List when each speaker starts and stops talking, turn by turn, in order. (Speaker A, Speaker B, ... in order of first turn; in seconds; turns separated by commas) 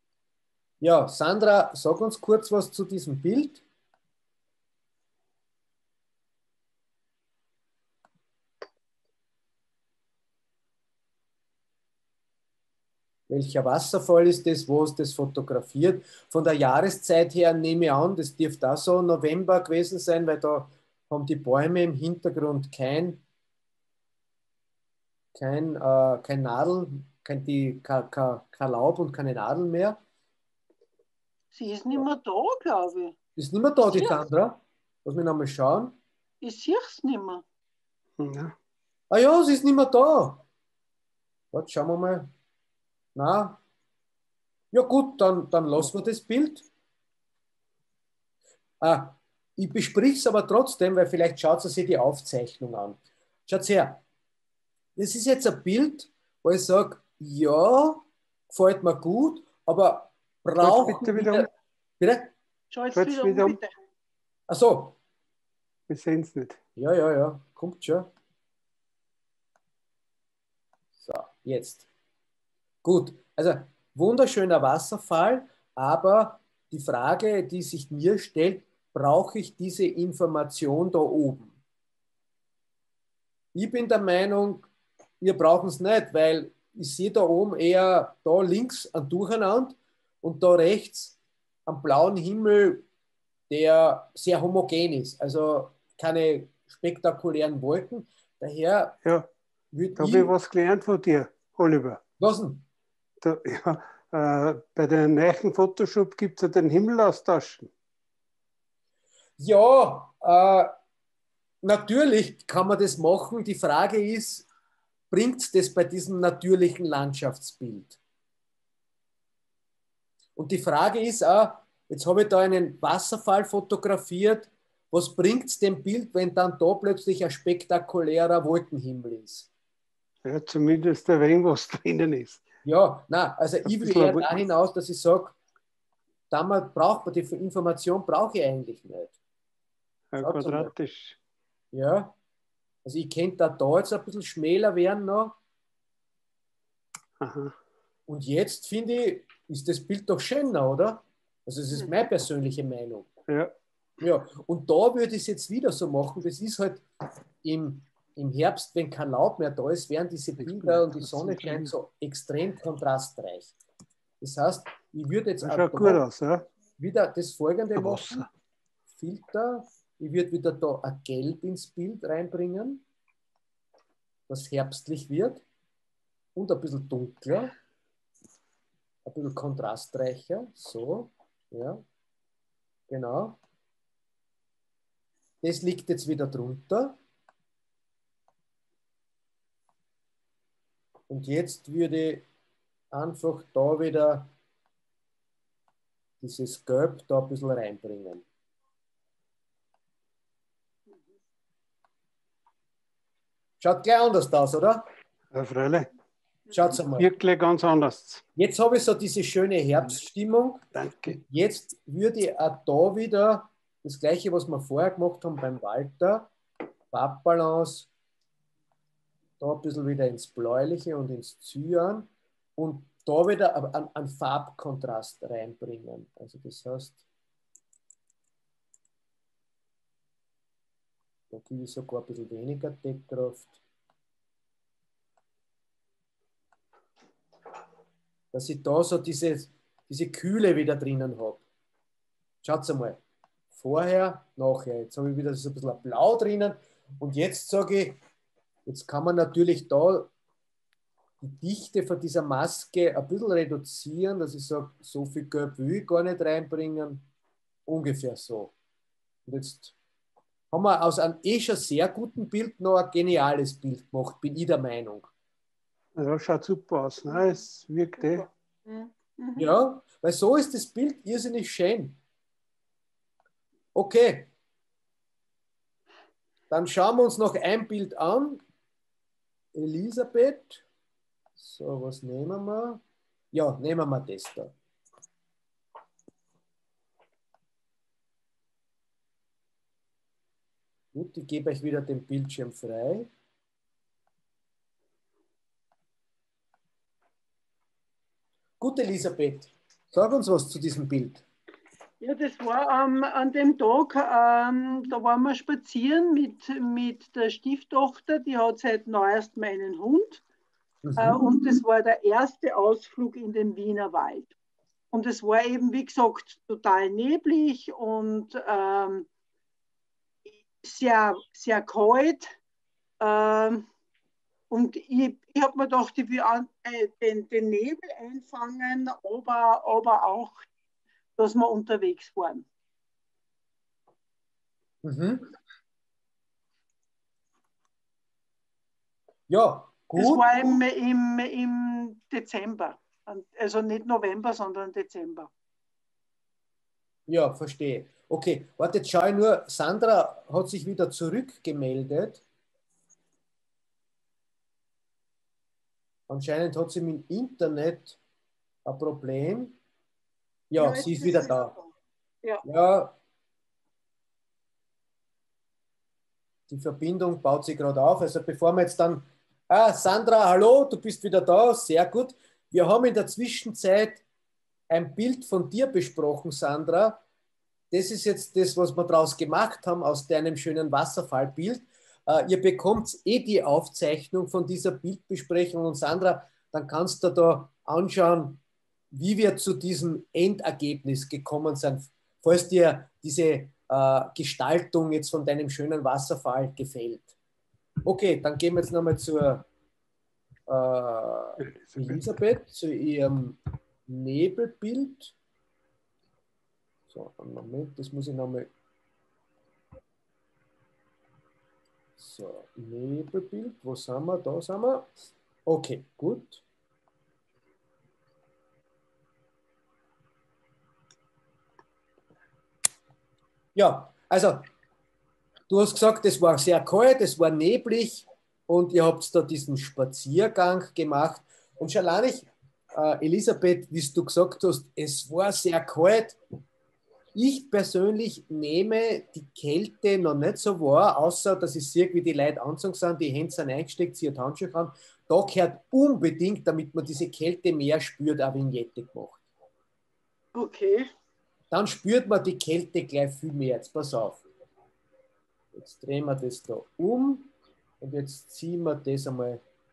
Speaker A: 0.8-3.6, Speaker A: 13.3-23.2, Speaker A: 25.3-30.0, Speaker B: 31.5-33.1, Speaker A: 33.4-36.0, Speaker B: 33.9-34.2, Speaker B: 36.4-37.4, Speaker C: 38.2-38.5, Speaker A: 39.1-40.4, Speaker A: 41.5-42.3, Speaker A: 43.1-43.6, Speaker A: 44.7-46.7, Speaker A: 48.8-54.0, Speaker A: 55.0-61.5, Speaker C: 60.6-61.5, Speaker A: 62.0-62.3, Speaker B: 62.7-63.7, Speaker C: 62.9-63.6, Speaker A: 64.5-64.9, Speaker C: 65.9-66.6, Speaker A: 66.8-68.1, Speaker A: 71.0-71.9, Speaker A: 72.8-81.5, Speaker A: 83.5-84.7, Speaker A: 85.2-92.8, Speaker A: 93.5-99.0, Speaker C: 99.0-99.3, Speaker A: 99.7-100.3, Speaker C: 100.0-102.0, Speaker A: 102.2-102.6, Speaker C: 103.2-107.7, Speaker A: 109.4-110.7, Speaker A: 111.6-114.5, Speaker A: 115.1-118.0, Speaker A: 120.3-129.5, Speaker C: 130.2-132.4, Speaker A: 132.6-135.4, Speaker C: 133.6-134.4, Speaker A: 136.3-139.1, Speaker C: 140.1-141.2, Speaker A: 140.2-140.7, Speaker A: 141.7-142.1, Speaker A: 142.8-145.3, Speaker C: 147.2-147.5, Speaker A: 148.1-153.1, Speaker C: 153.3-153.5, Speaker A: 154.0-156.8, Speaker A: 157.4-163.5, Speaker C: 160.4-161.7, Speaker A: 164.2-166.0, Speaker C: 165.4-166.5, Speaker A: 166.8-168.3, Speaker C: 167.8-168.3, Speaker A: 168.9-172.8, Speaker A: 174.3-175.4, Speaker A: 176.3-177.5, Speaker A: 179.1-181.8, Speaker A: 182.9-183.4, Speaker A: 185.4-186.9, Speaker A: 191.1-192.2, Speaker A: 192.9-194.3, Speaker A: 196.2-198.2, Speaker A: 203.6-204.8, Speaker C: 205.3-205.9, Speaker A: 206.5-207.1, Speaker C: 206.9-208.2, Speaker A: 208.3-216.3, Speaker C: 210.7-211.2, Speaker A: 216.9-217.9, Speaker A: 219.4-227.0, Speaker A: 231.3-233.6, Speaker A: 238.3-241.4, Speaker A: 242.4-243.0, Speaker A: 243.5-248.0, Speaker A: 248.7-250.1, Speaker A: 251.2-257.1, Speaker A: 257.7-258.5, Speaker A: 259.3-259.7, Speaker A: 260.5-265.1, Speaker C: 265.9-268.3, Speaker B: 268.1-269.5, Speaker A: 269.4-272.0, Speaker A: 273.7-274.3, Speaker A: 276.5-278.4, Speaker A: 279.5-280.6, Speaker A: 281.4-282.8, Speaker A: 283.3-284.5, Speaker A: 290.9-293.1, Speaker A: 298.6-301.2, Speaker B: 302.0-310.2, Speaker A: 310.8-311.6, Speaker B: 311.0-314.3, Speaker B: 314.9-319.1, Speaker B: 320.6-322.3, Speaker B: 323.0-323.7, Speaker B: 324.5-330.5, Speaker B: 331.2-332.5, Speaker A: 334.8-335.3, Speaker A: 339.3-340.3, Speaker B: 340.0-345.3, Speaker A: 347.1-352.2, Speaker A: 356.1-358.0, Speaker A: 358.6-359.6, Speaker A: 360.5-361.5, Speaker B: 360.6-361.7, Speaker A: 362.4-362.9, Speaker A: 366.5-374.0, Speaker A: 374.7-377.0, Speaker A: 377.7-397.1, Speaker A: 397.8-399.4, Speaker A: 400.5-405.1, Speaker C: 401.4-402.0, Speaker A: 406.9-408.5, Speaker A: 412.0-416.4, Speaker A: 423.5-424.5, Speaker A: 425.5-436.2, Speaker A: 437.1-449.2, Speaker B: 450.3-450.9, Speaker A: 451.5-454.2, Speaker A: 455.5-459.4